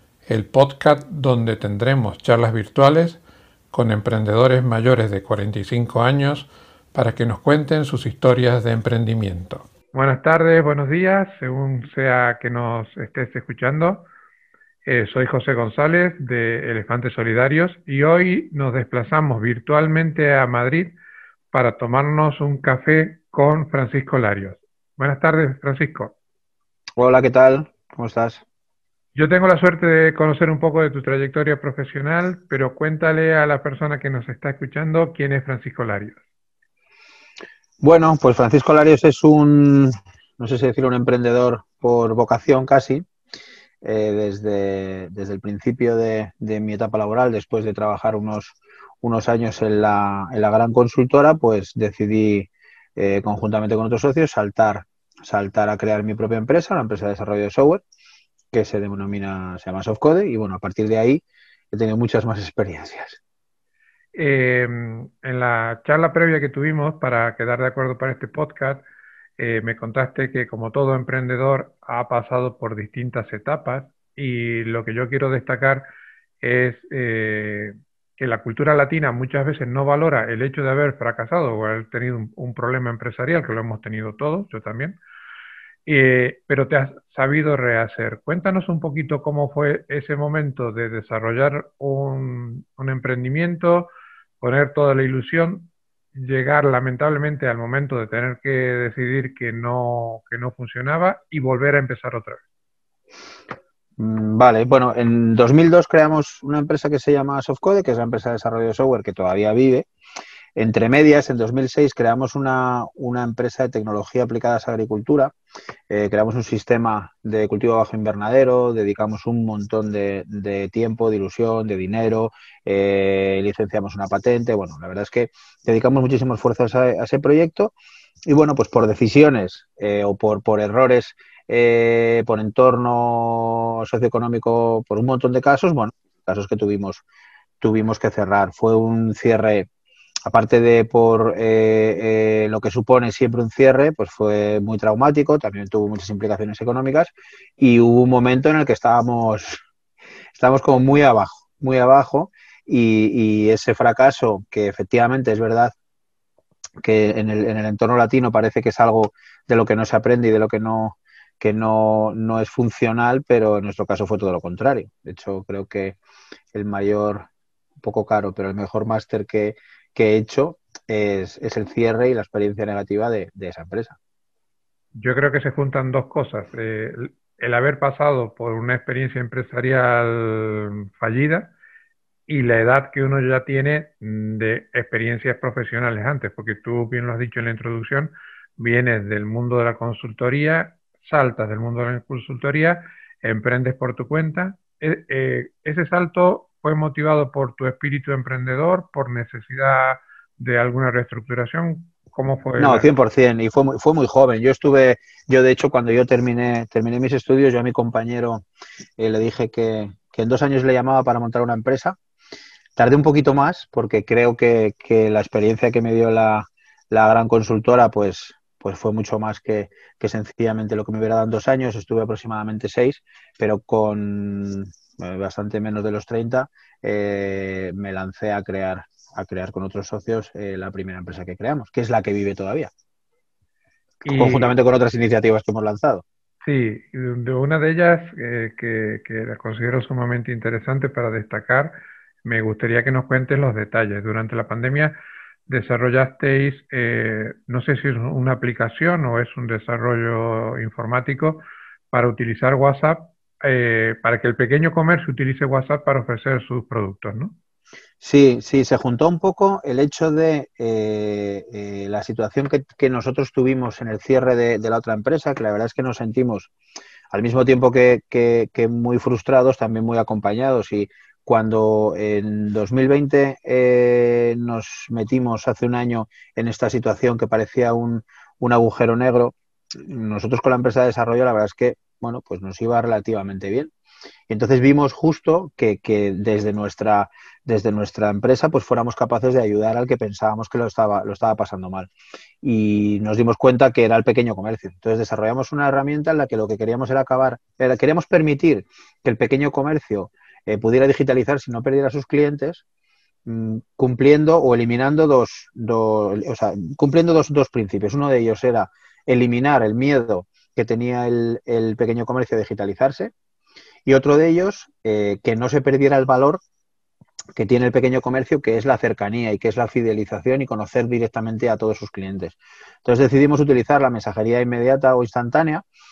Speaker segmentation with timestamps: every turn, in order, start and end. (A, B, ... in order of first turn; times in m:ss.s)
0:00.2-0:14.0 A
0:14.8-0:21.0 A
0:21.5-0:26.2 A
0:27.0-0:28.4 B
0:29.1-0:36.2 A
0:37.8-0:43.0 B
0:43.8-0:57.8 B
0:58.5-1:03.2 B
1:04.2-1:08.8 A
1:09.4-1:15.8 A
1:16.4-1:25.0 A
1:25.8-1:42.4 A
1:44.0-1:49.9 B
1:50.6-1:55.3 B
1:55.9-2:07.7 B
2:08.2-2:17.0 B
2:17.6-2:19.7 B
2:20.3-2:29.6 B
2:30.3-2:35.7 B
2:36.8-2:46.0 B
2:46.5-2:47.3 B
2:47.8-2:54.0 B
2:54.9-3:01.5 A
3:02.3-3:22.9 A
3:22.6-3:28.4 B
3:29.0-3:32.0 B
3:32.8-3:52.7 B
3:54.0-3:54.6 A
3:54.0-3:56.0 B
3:56.4-4:04.9 A
4:05.5-4:17.4 A
4:18.0-4:26.5 B
4:27.1-4:43.7 B
4:44.3-4:51.9 B
4:52.4-5:02.6 B
5:03.2-5:13.1 B
5:13.8-5:16.4 B
5:17.3-5:25.6 B